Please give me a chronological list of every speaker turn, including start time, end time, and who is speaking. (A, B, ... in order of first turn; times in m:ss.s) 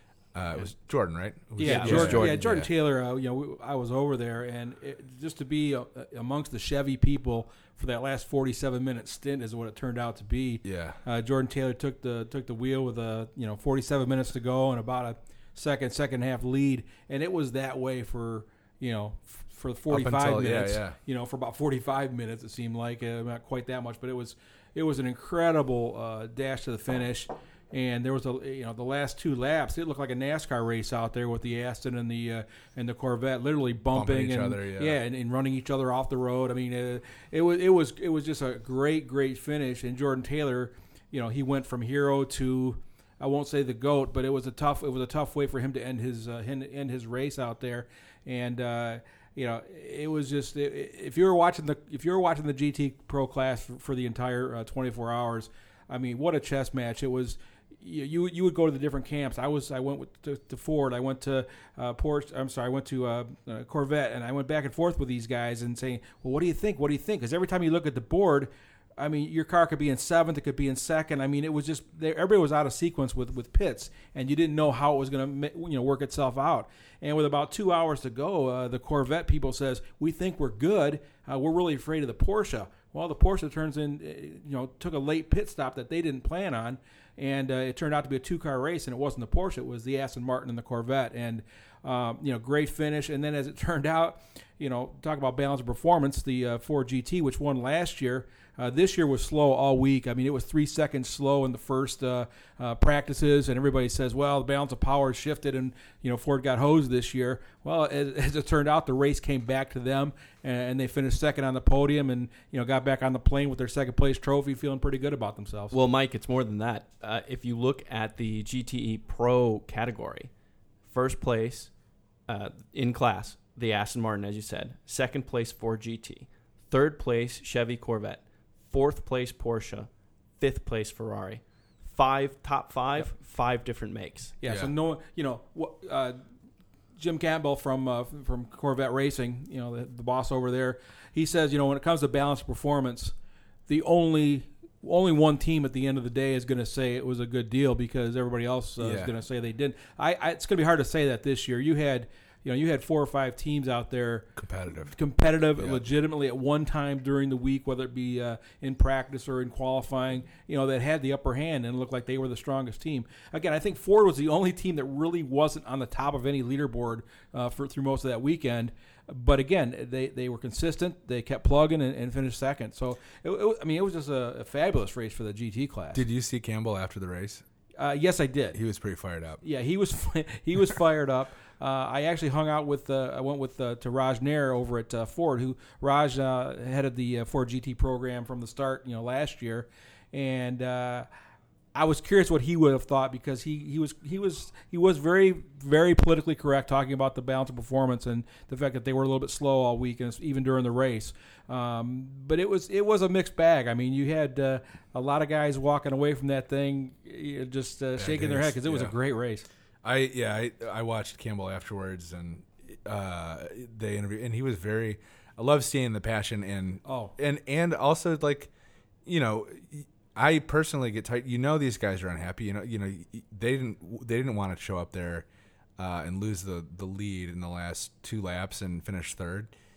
0:00.3-0:02.7 A
0:01.6-1:55.8 B
0:01.6-0:02.5 C
0:10.6-0:11.0 A
0:19.9-0:21.0 A
0:33.9-0:35.0 A
1:55.7-2:00.3 C
2:00.9-2:01.7 C
2:02.3-2:14.4 C
2:14.4-2:16.2 B
2:14.5-2:14.7 A
2:17.0-2:23.1 B
2:23.7-2:34.3 B
2:28.8-2:29.1 A
2:34.4-2:35.0 A
2:34.9-2:56.0 B
2:35.6-2:35.8 A
2:55.9-2:57.4 A
2:57.8-2:58.6 B
2:58.5-2:59.4 A
2:59.4-3:11.1 B
3:11.7-3:29.5 B
3:28.0-3:29.0 A
3:29.8-3:38.5 A
3:36.8-3:37.1 B
3:39.1-3:45.3 A
3:45.8-3:49.5 A